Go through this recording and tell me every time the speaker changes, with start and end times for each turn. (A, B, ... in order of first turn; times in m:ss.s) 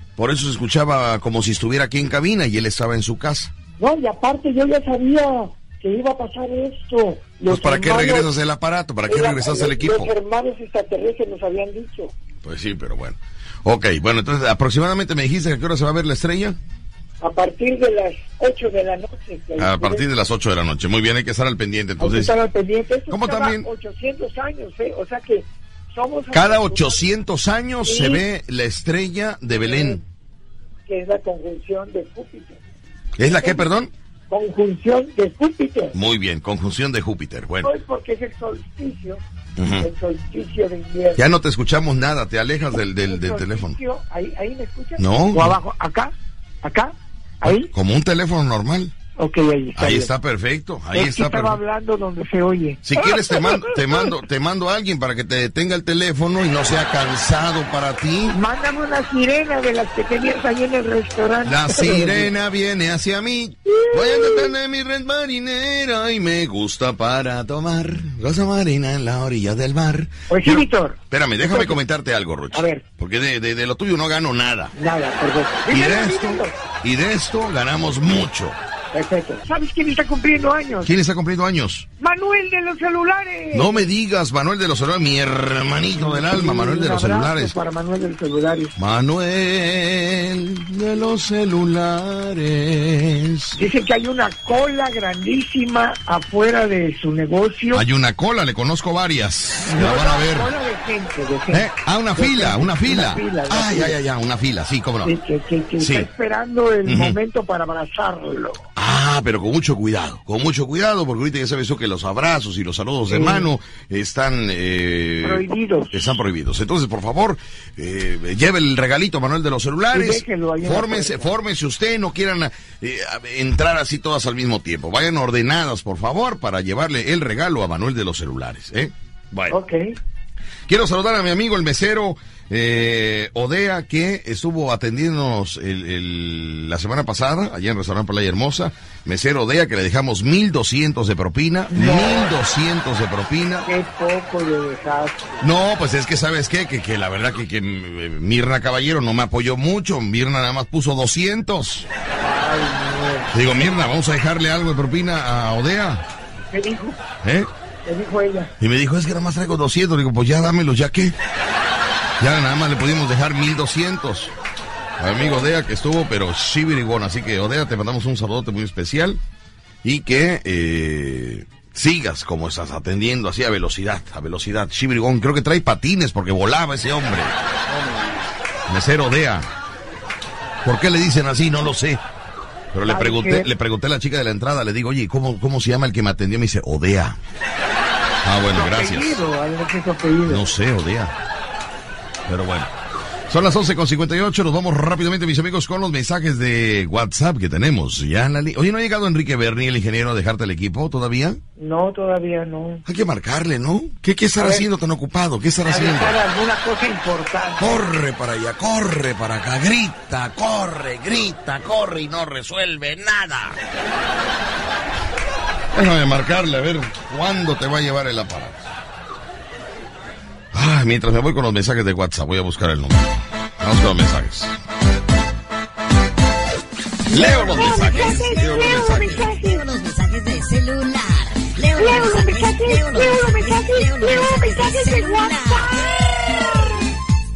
0:00.2-0:03.5 A
0:03.8-0:08.3 B
0:07.5-0:10.1 A
0:09.1-0:12.1 B
0:12.4-0:16.6 A
0:17.2-0:20.0 B
0:19.6-0:22.3 A
0:22.0-0:27.0 B
0:23.1-0:23.7 A
0:26.3-0:30.0 A
0:27.8-0:28.2 B
0:29.5-0:30.0 B
0:30.9-0:32.6 B
0:33.2-0:33.9 A
0:34.3-0:35.9 B
0:35.9-0:37.7 A
0:37.6-0:39.2 B
0:39.6-0:39.9 A
0:39.8-0:41.2 B
0:41.2-0:43.8 A
0:43.1-0:47.7 B
0:45.0-0:45.6 A
0:47.4-0:48.9 A
0:49.2-0:50.1 B
0:49.8-0:51.6 A
0:50.9-0:54.1 B
0:52.8-0:58.4 A
0:58.3-1:02.3 B
1:01.4-1:14.7 A
1:03.7-1:04.5 B
1:10.3-1:11.8 B
1:12.5-1:12.8 B
1:14.7-1:16.5 B
1:15.7-1:18.6 A
1:18.9-1:20.9 B
1:20.8-1:21.9 A
1:22.0-1:23.9 B
1:23.5-1:27.5 A
1:26.0-1:28.8 B
1:28.8-1:33.6 A
1:33.6-1:37.8 B
1:37.7-1:40.5 A
1:39.6-1:41.6 B
1:41.5-1:45.1 A
1:42.2-1:43.9 B
1:45.0-1:48.6 B
1:45.8-1:46.1 A
1:46.8-1:47.2 A
1:48.8-2:09.6 A
1:53.1-1:53.5 B
1:55.2-1:55.9 B
1:59.9-2:01.3 B
2:09.5-2:10.0 B
2:10.7-2:23.7 A
2:21.7-2:22.3 B
2:23.6-2:25.4 B
2:25.4-2:31.9 A
2:32.2-2:33.3 B
2:33.3-2:36.0 A
2:36.5-2:37.0 B
2:37.2-2:37.5 A
2:37.8-2:38.5 B
2:38.6-2:41.2 A
2:42.2-2:44.3 A
2:45.0-2:49.2 A
2:45.2-2:45.4 B
2:49.8-2:57.3 A
2:57.7-2:58.3 B
2:58.7-2:59.5 A
3:00.6-3:02.0 A
3:02.7-3:07.2 A
3:02.9-3:03.5 B
3:08.2-3:09.2 A
3:08.5-3:10.4 B
3:10.3-3:11.1 A
3:12.3-3:12.7 A
3:13.3-3:21.4 A
3:21.6-3:22.8 B
3:22.8-3:26.2 A
3:24.4-3:24.6 B
3:25.7-3:27.6 B
3:27.6-3:33.6 A
3:35.7-3:38.7 A
3:40.5-3:44.5 A
3:47.1-3:49.3 A
3:47.1-3:49.6 B
3:47.1-3:55.9 C
3:51.7-3:56.7 B